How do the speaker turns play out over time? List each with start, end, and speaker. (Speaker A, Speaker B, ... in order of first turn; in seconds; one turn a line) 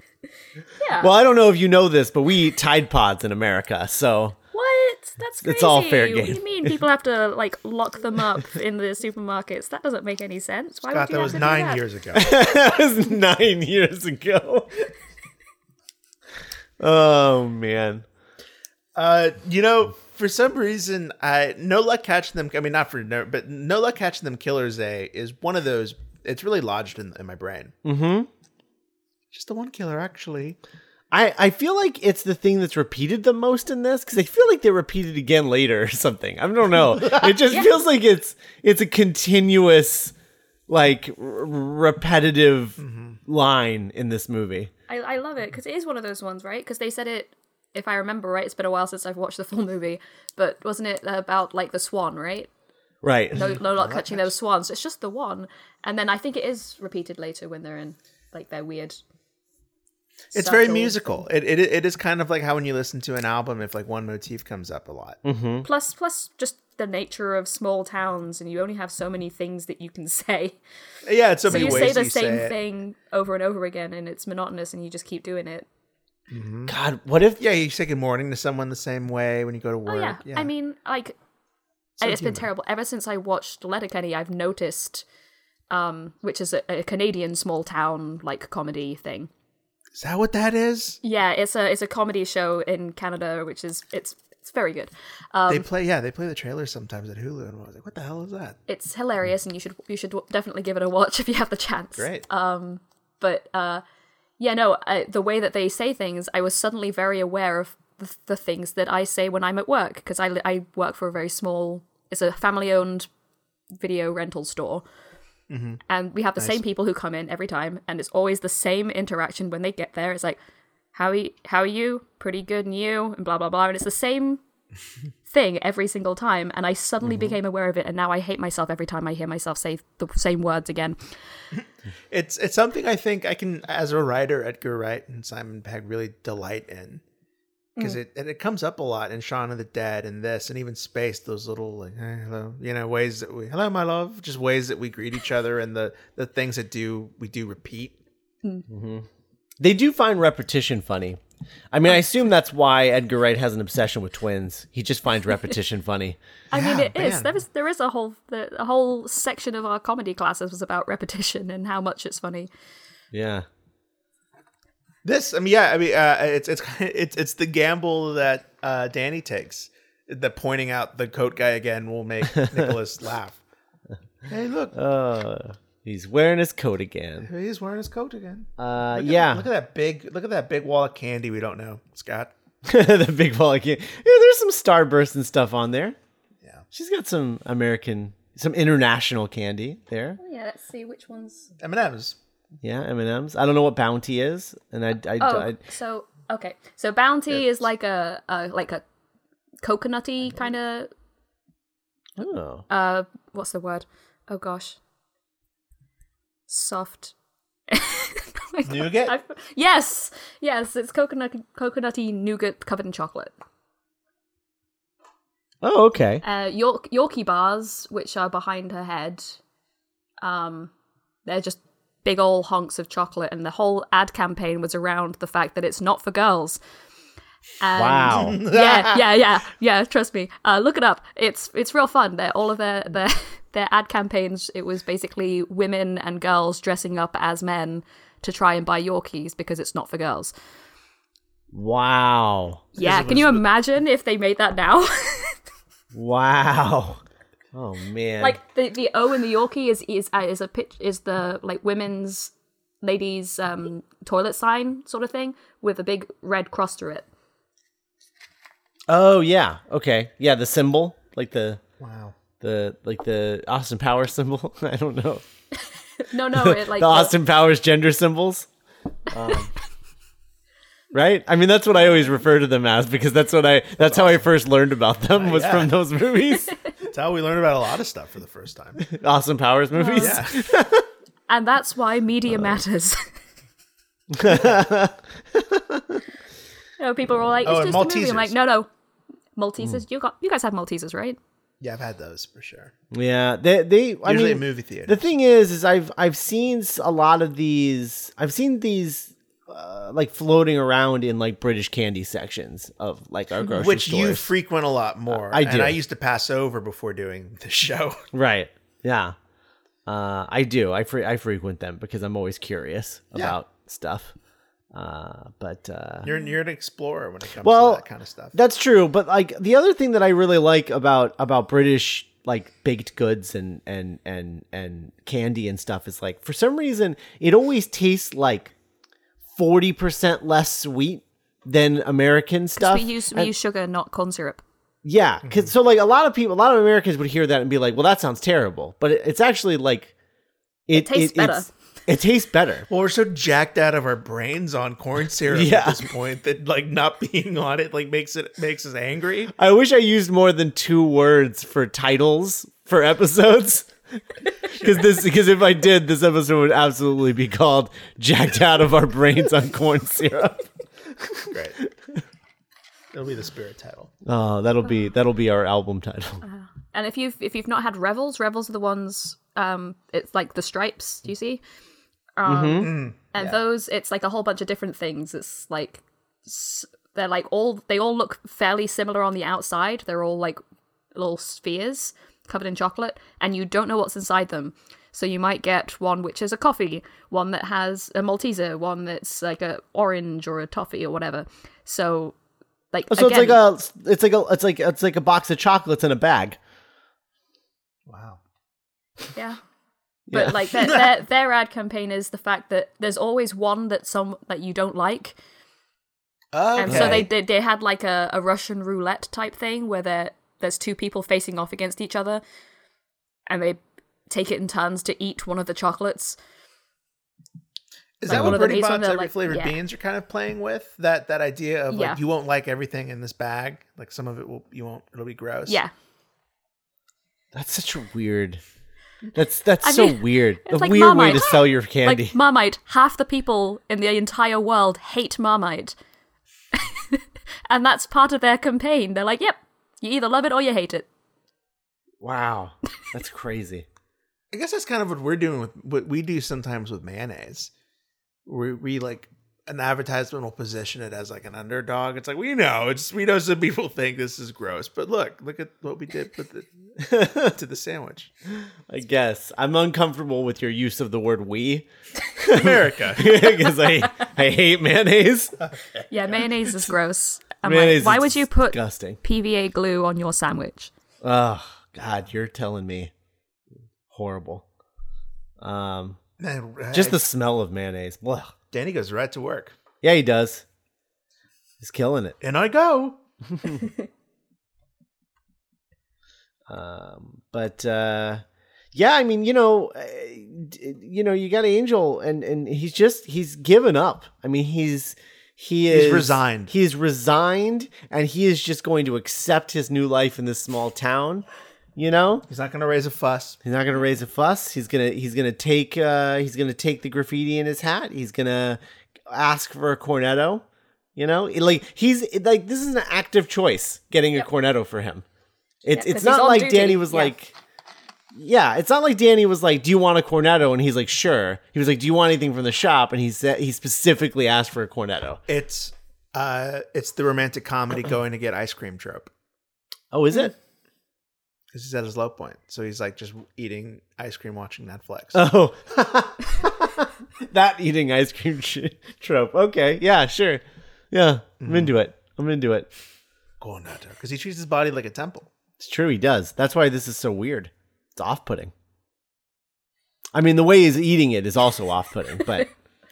Speaker A: 0.8-1.1
Speaker B: 1.0-4.3
Speaker A: 4.5-11.8
Speaker B: 5.4-6.7
Speaker C: 10.9-12.3
Speaker B: 12.1-14.9
Speaker B: 16.8-18.0
Speaker C: 18.9-27.7
Speaker B: 27.8-28.3
Speaker C: 29.3-30.6
Speaker B: 31.1-40.1
Speaker A: 37.5-37.7
Speaker B: 40.7-44.7
Speaker C: 42.8-43.2
Speaker A: 44.9-52.5
Speaker B: 53.0-53.5
Speaker A: 53.3-59.0
Speaker C: 53.3-54.3
Speaker C: 60.3-65.2
Speaker A: 60.3-61.2
Speaker B: 65.2-65.7
Speaker A: 65.6-70.6
Speaker C: 71.0-72.5
Speaker A: 71.4-75.7
Speaker B: 71.5-71.9
Speaker C: 76.3-76.7
Speaker B: 76.7-77.4
Speaker C: 77.4-80.5
Speaker A: 79.8-81.2
Speaker C: 82.0-82.5
Speaker A: 82.0-85.0
Speaker A: 85.7-89.3
Speaker C: 89.9-91.0
Speaker A: 91.0-95.7
Speaker C: 95.5-98.6
Speaker A: 98.7-103.8
Speaker C: 102.0-102.2
Speaker A: 104.4-113.1
Speaker A: 113.8-114.8
Speaker C: 115.5-115.8
Speaker A: 115.9-120.4
Speaker A: 120.9-124.4
Speaker A: 125.3-131.0
Speaker C: 131.6-137.0
Speaker C: 137.8-147.9
Speaker B: 148.7-149.1
Speaker B: 149.6-151.2
Speaker B: 151.7-156.2
Speaker A: 156.5-162.5
Speaker C: 156.5-157.3
Speaker B: 163.1-163.4
Speaker C: 165.0-173.4
Speaker C: 174.2-174.7
Speaker B: 174.7-177.3
Speaker C: 177.2-182.3
Speaker B: 178.6-179.5
Speaker B: 182.6-185.9
Speaker B: 186.7-190.2
Speaker A: 190.2-191.5
Speaker C: 191.6-192.2
Speaker B: 192.6-195.6
Speaker A: 195.2-198.8
Speaker A: 199.6-200.9
Speaker B: 202.2-202.6
Speaker A: 202.7-204.8
Speaker A: 206.5-207.1
Speaker A: 207.7-213.3
Speaker C: 208.7-209.1
Speaker B: 215.6-216.2
Speaker A: 216.2-219.4
Speaker A: 220.2-220.7
Speaker A: 221.2-226.6
Speaker A: 227.6-240.3
Speaker B: 227.7-228.4
Speaker C: 228.1-229.1
Speaker B: 241.5-242.7
Speaker A: 242.7-245.4
Speaker C: 242.8-243.4
Speaker B: 245.9-247.0
Speaker B: 247.5-248.4
Speaker A: 248.2-257.1
Speaker B: 258.9-261.6
Speaker C: 261.8-262.1
Speaker B: 262.4-265.2
Speaker A: 266.0-267.1
Speaker B: 266.3-268.5
Speaker B: 269.1-269.5
Speaker B: 270.9-276.5
Speaker C: 273.8-274.2
Speaker C: 275.1-275.7
Speaker C: 276.8-278.9
Speaker B: 278.8-280.8
Speaker A: 279.7-280.2
Speaker C: 279.9-280.5
Speaker A: 281.3-283.0
Speaker B: 284.1-286.0
Speaker C: 284.3-284.6
Speaker A: 286.8-288.7
Speaker C: 287.4-288.3
Speaker A: 289.4-291.2
Speaker C: 291.6-292.7
Speaker B: 292.9-304.3
Speaker C: 294.0-295.0
Speaker C: 303.4-308.0
Speaker B: 305.1-305.8
Speaker B: 308.1-309.1
Speaker B: 309.9-314.1
Speaker B: 314.7-316.1
Speaker C: 316.0-318.4
Speaker B: 317.4-328.5
Speaker B: 329.4-333.3
Speaker A: 332.6-334.4
Speaker B: 334.8-339.9
Speaker C: 335.2-335.5
Speaker B: 340.7-342.7
Speaker A: 340.7-341.5
Speaker C: 342.7-349.3
Speaker B: 345.3-345.8
Speaker B: 349.3-353.7
Speaker B: 354.5-361.3
Speaker C: 354.5-355.0
Speaker C: 361.3-361.6
Speaker C: 362.9-363.9
Speaker B: 364.0-366.2
Speaker A: 366.2-371.4
Speaker A: 372.2-380.4
Speaker B: 372.2-372.8
Speaker C: 372.6-373.4
Speaker A: 380.9-392.1
Speaker A: 392.7-393.4
Speaker B: 392.9-396.4
Speaker C: 397.9-398.2
Speaker A: 399.1-399.4
Speaker B: 400.1-400.4
Speaker A: 400.1-405.1
Speaker C: 406.3-407.1
Speaker A: 406.6-412.2
Speaker B: 406.7-407.1
Speaker A: 413.3-416.2
Speaker C: 418.0-425.6
Speaker A: 418.1-419.6
Speaker B: 418.1-418.4
Speaker A: 421.7-422.0
Speaker A: 425.5-425.7
Speaker B: 427.3-428.4
Speaker B: 429.1-432.1
Speaker A: 429.6-435.7
Speaker A: 436.5-440.9
Speaker B: 442.0-443.6
Speaker C: 444.3-447.5
Speaker C: 448.2-458.1
Speaker B: 456.8-457.3
Speaker B: 458.4-461.7
Speaker B: 462.2-465.4
Speaker C: 462.2-463.2
Speaker A: 465.9-470.7
Speaker B: 467.4-469.0
Speaker B: 471.0-472.9
Speaker B: 473.9-474.4
Speaker B: 475.4-476.0
Speaker C: 476.2-477.0
Speaker B: 476.7-478.3
Speaker C: 478.5-479.6
Speaker B: 479.8-480.4
Speaker B: 481.6-482.1
Speaker C: 482.2-483.0
Speaker B: 483.3-483.7
Speaker B: 486.5-488.2
Speaker B: 488.7-502.2
Speaker C: 495.7-496.5
Speaker C: 502.3-503.4
Speaker B: 503.4-510.4
Speaker B: 510.9-515.0
Speaker B: 515.6-517.3
Speaker A: 515.7-517.1
Speaker B: 518.1-525.2
Speaker C: 525.3-529.1
Speaker B: 529.9-530.3
Speaker C: 531.5-535.2
Speaker B: 535.1-542.7
Speaker C: 541.4-541.7
Speaker C: 543.4-545.3
Speaker B: 545.6-548.5
Speaker B: 550.1-552.5